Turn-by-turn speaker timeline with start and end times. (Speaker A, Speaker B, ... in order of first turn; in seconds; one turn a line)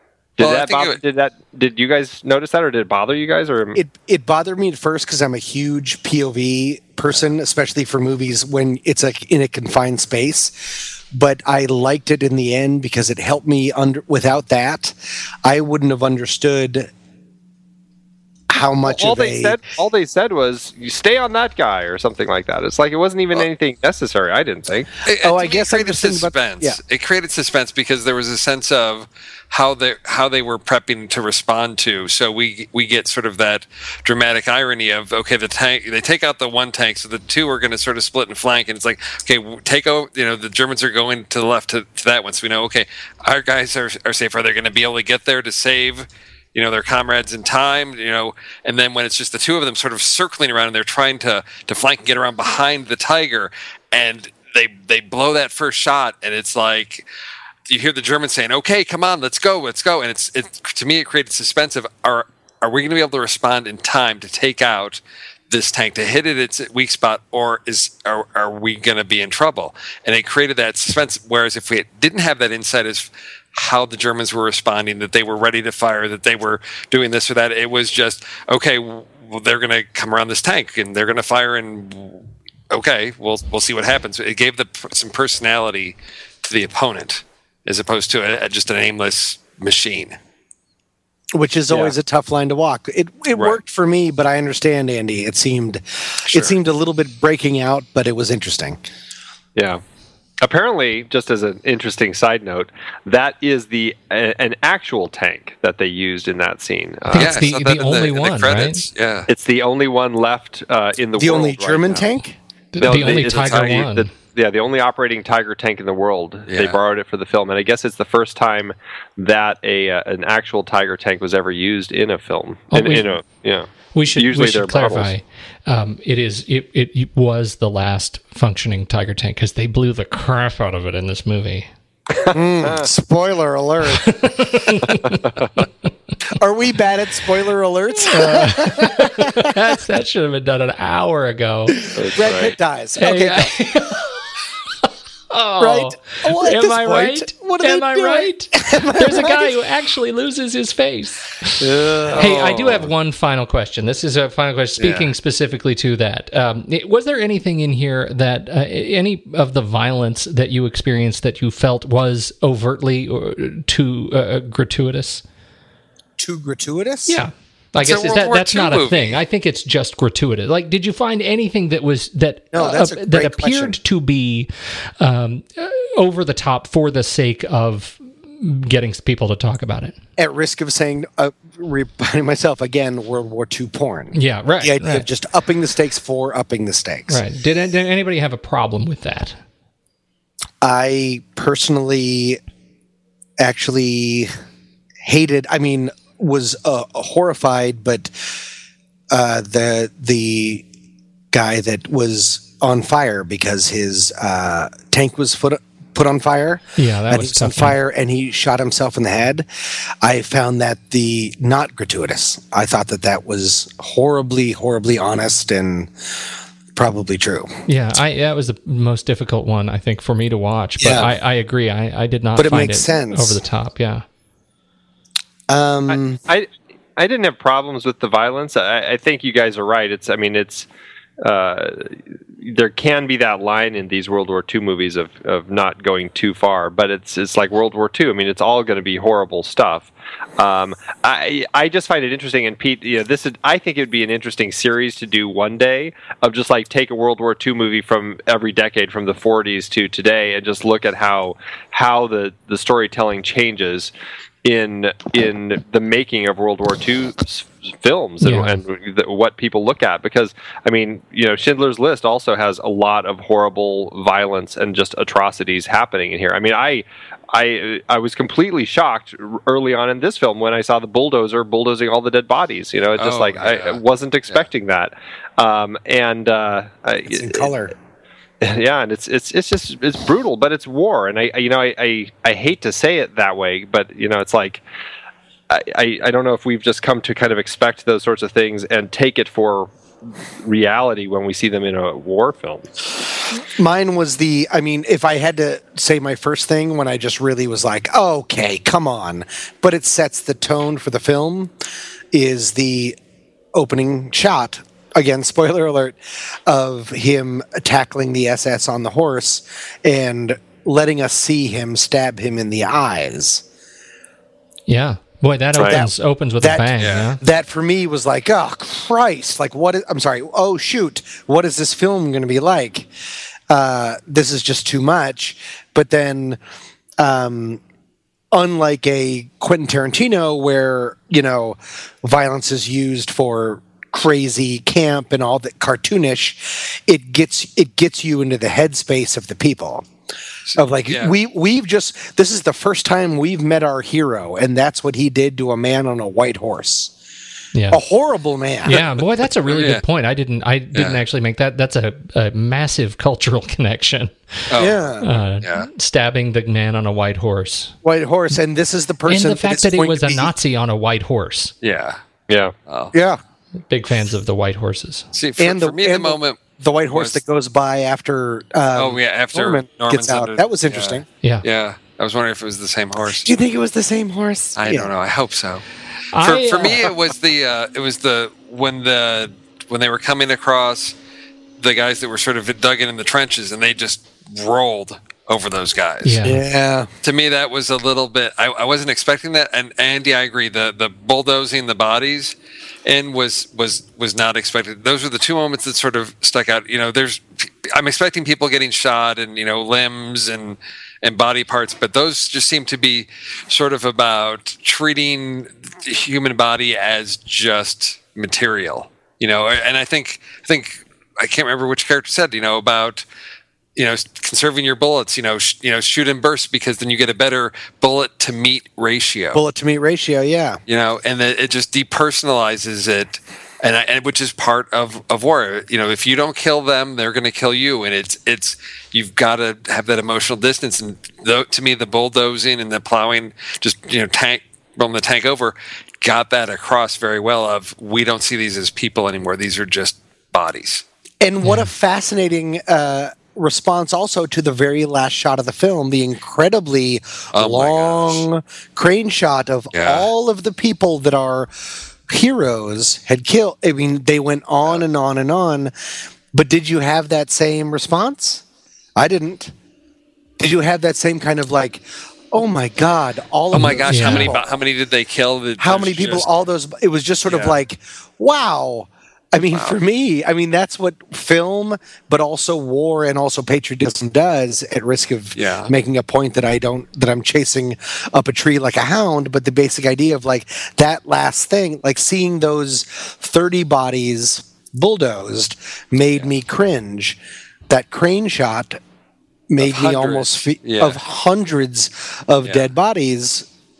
Speaker A: 0.4-3.8
Speaker B: 0.4-1.0
Speaker C: 3.7-16.9
Speaker C: 18.5-19.6
Speaker A: 18.8-24.9
Speaker B: 25.1-57.1
Speaker C: 25.2-26.8
Speaker B: 57.7-90.2
Speaker C: 91.3-98.8
Speaker A: 91.7-91.9
Speaker A: 99.5-99.8
Speaker A: 100.4-107.4
Speaker D: 107.1-108.9
Speaker B: 107.1-109.3
Speaker A: 109.3-112.1
Speaker C: 111.2-112.3
Speaker D: 112.7-114.1
Speaker A: 112.8-125.1
Speaker B: 112.8-113.9
Speaker B: 116.5-116.8
Speaker D: 122.7-123.1
Speaker D: 123.9-131.7
Speaker C: 132.3-134.2
Speaker D: 134.0-135.2
Speaker C: 136.3-139.5
Speaker D: 138.1-141.8
Speaker A: 141.9-142.5
Speaker C: 142.1-143.9
Speaker D: 143.0-144.1
Speaker D: 145.3-151.6
Speaker C: 145.6-149.7
Speaker C: 151.7-152.3
Speaker D: 152.1-165.2
Speaker B: 152.2-152.9
Speaker B: 154.8-155.1
Speaker C: 166.2-167.2
Speaker D: 167.1-179.9
Speaker B: 167.8-169.2
Speaker C: 172.5-173.8
Speaker C: 180.2-187.2
Speaker D: 184.1-185.1
Speaker D: 187.1-189.4
Speaker C: 190.6-192.4
Speaker C: 193.4-194.3
Speaker C: 195.0-198.1
Speaker C: 199.1-200.6
Speaker C: 201.3-209.4
Speaker D: 206.8-207.8
Speaker C: 210.0-215.9
Speaker C: 216.7-217.5
Speaker D: 217.7-224.0
Speaker C: 220.8-221.1
Speaker C: 222.3-223.4
Speaker C: 225.5-226.2
Speaker A: 225.9-230.7
Speaker A: 231.2-253.9
Speaker A: 254.4-277.5
Speaker D: 258.2-258.6
Speaker B: 273.0-274.4
Speaker C: 277.1-277.7
Speaker A: 278.4-284.6
Speaker A: 285.5-289.7
Speaker A: 290.4-292.7
Speaker C: 293.6-301.5
Speaker C: 302.1-303.0
Speaker C: 303.5-313.4
Speaker D: 314.7-317.2
Speaker C: 315.6-322.9
Speaker B: 316.8-317.1
Speaker C: 323.5-326.4
Speaker C: 327.0-327.6
Speaker C: 328.3-339.9
Speaker B: 340.5-341.1
Speaker C: 340.6-346.9
Speaker D: 347.5-347.8
Speaker C: 347.7-348.8
Speaker D: 348.6-354.1
Speaker B: 349.4-349.8
Speaker B: 350.7-351.0
Speaker B: 354.5-354.8
Speaker C: 354.6-355.1
Speaker D: 355.0-357.7
Speaker B: 355.4-355.7
Speaker C: 357.8-360.3
Speaker D: 359.1-361.5
Speaker B: 361.6-362.0
Speaker A: 362.3-362.5
Speaker B: 362.7-362.9
Speaker C: 362.9-363.2
Speaker D: 363.7-365.1
Speaker B: 365.1-367.2
Speaker C: 365.4-371.0
Speaker B: 368.8-373.3
Speaker C: 373.2-374.9
Speaker B: 374.6-375.6
Speaker D: 376.1-376.9
Speaker B: 376.2-380.9
Speaker B: 381.6-386.2
Speaker D: 386.0-386.4
Speaker C: 386.2-386.9
Speaker B: 387.0-413.1
Speaker B: 413.8-419.4
Speaker C: 419.3-420.6
Speaker B: 420.7-440.8
Speaker C: 441.2-451.5
Speaker D: 441.4-441.7
Speaker B: 447.3-448.2
Speaker B: 449.7-450.1
Speaker C: 452.1-455.7
Speaker C: 456.3-458.4
Speaker C: 458.9-459.5
Speaker C: 460.4-464.6
Speaker B: 463.5-466.3
Speaker D: 463.9-464.3
Speaker C: 465.6-487.2
Speaker B: 467.3-467.6
Speaker B: 475.4-475.7
Speaker C: 487.7-488.8
Speaker C: 489.5-493.5
Speaker B: 489.6-491.0